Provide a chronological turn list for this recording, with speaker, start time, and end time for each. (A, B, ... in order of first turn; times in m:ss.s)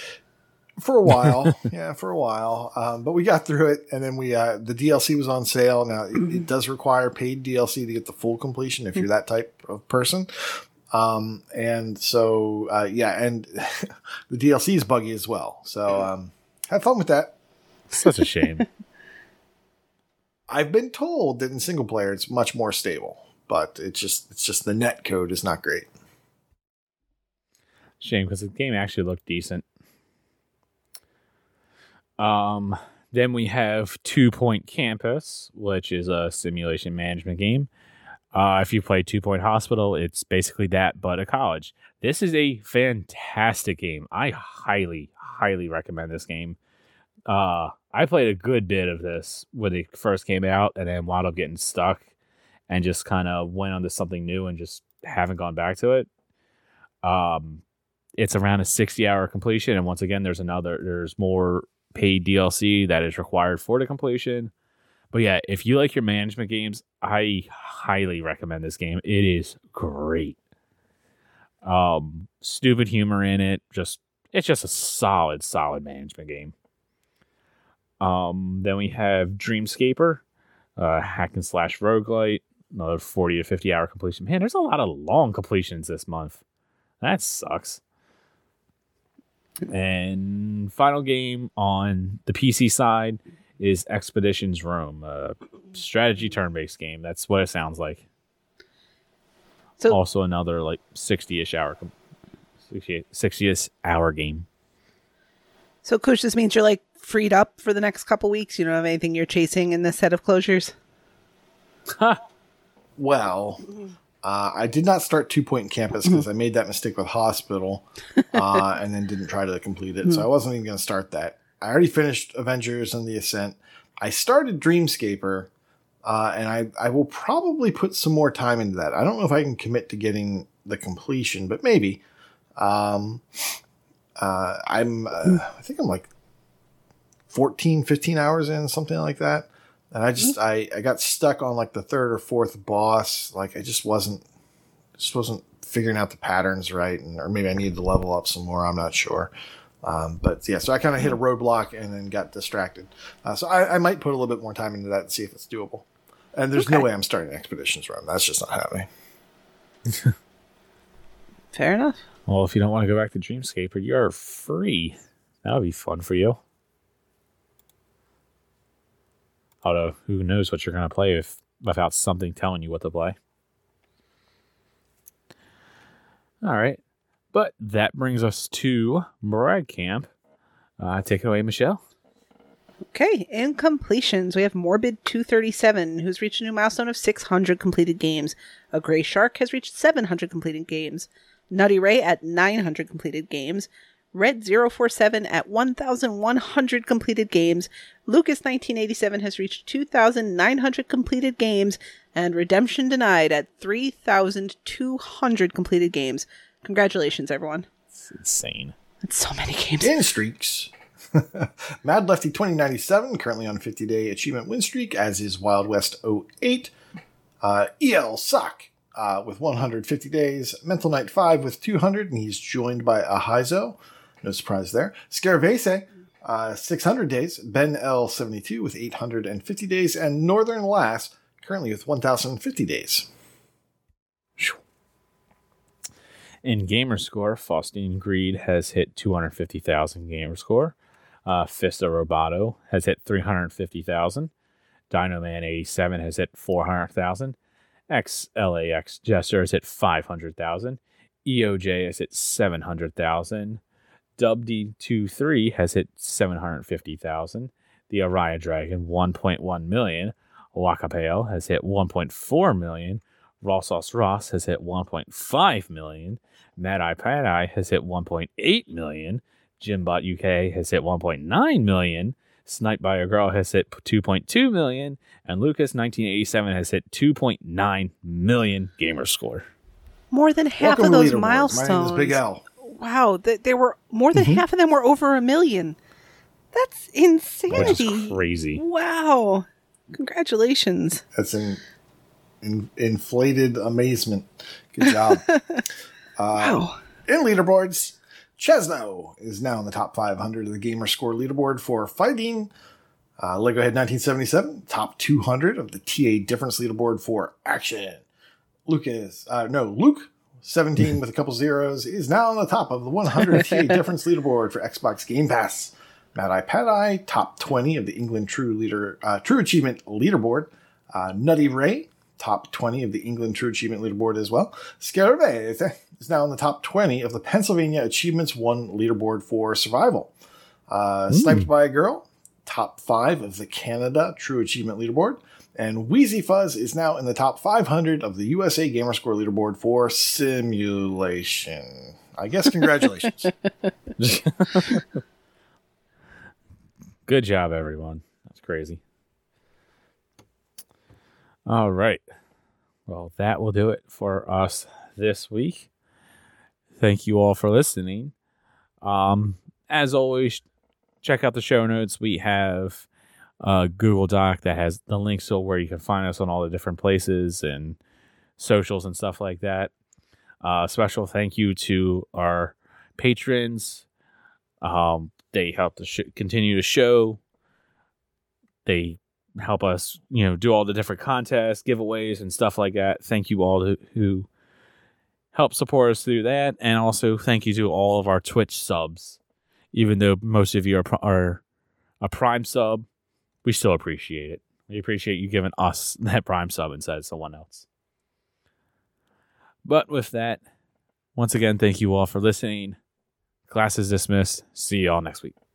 0:00.8-0:17.3 A
0:17.9-0:18.6 B
0:20.5-0:25.9 A
0:28.0-0:29.6 B
0:32.2-0:37.7 B
0:38.3-0:46.6 B
0:47.3-0:52.0 B
0:52.7-0:56.1 B
0:57.0-0:57.6 B
0:58.2-1:04.5 B
1:05.1-1:10.4 B
1:11.6-1:16.5 B
1:18.0-1:20.2 B
1:20.8-1:26.4 B
1:27.0-1:27.8 B
1:29.7-1:38.0 B
1:39.9-1:41.9 B
1:42.6-1:44.4 B
1:45.8-1:50.7 C
1:51.9-1:52.2 B
1:53.0-1:53.7 A
1:54.2-2:05.5 A
2:06.0-2:12.0 A
2:12.6-2:13.2 A
2:14.2-2:16.1 A
2:17.3-2:24.2 A
2:25.0-2:29.3 A
2:29.8-2:38.9 A
2:36.6-2:36.8 C
2:41.5-2:42.0 C
2:42.3-2:46.4 B
2:49.6-2:53.2 B
2:56.4-2:56.8 B
2:57.3-3:00.1 B
3:00.8-3:01.8 B
3:02.9-3:27.7 C
3:28.0-3:28.7 B
3:29.0-3:29.9 C
3:29.8-3:36.7 A
3:37.4-3:53.1 A
3:56.4-4:04.3 B
4:04.9-4:07.4 B
4:07.9-4:13.6 B
4:14.2-4:39.5 B
4:40.1-4:45.8 C
4:40.6-4:42.4 A
4:44.1-4:44.4 A
4:46.5-4:51.0 C
4:47.5-4:47.8 A
4:47.5-4:48.6 B
4:51.1-4:51.6 A
4:52.4-4:55.2 A
4:55.2-4:55.6 C
4:56.2-5:02.5 A
4:56.4-4:56.8 C
5:03.2-5:08.0 A
5:08.6-5:30.1 A
5:30.7-5:43.3 A
5:31.1-5:31.5 B
5:44.0-5:44.8 B
5:47.0-5:48.8 B
5:51.5-5:52.0 B
5:52.9-5:55.7 B
5:56.8-5:58.1 B
5:58.8-6:00.4 B
6:01.0-6:02.8 B
6:03.4-6:07.8 B
6:08.4-6:09.7 B
6:10.4-6:13.8 B
6:14.6-6:17.2 B
6:18.6-6:24.3 B
6:25.3-6:29.2 B
6:29.7-6:31.4 B
6:32.0-6:32.8 B
6:33.4-6:37.6 B
6:39.6-6:40.4 B
6:41.2-6:42.8 B
6:43.5-6:45.3 B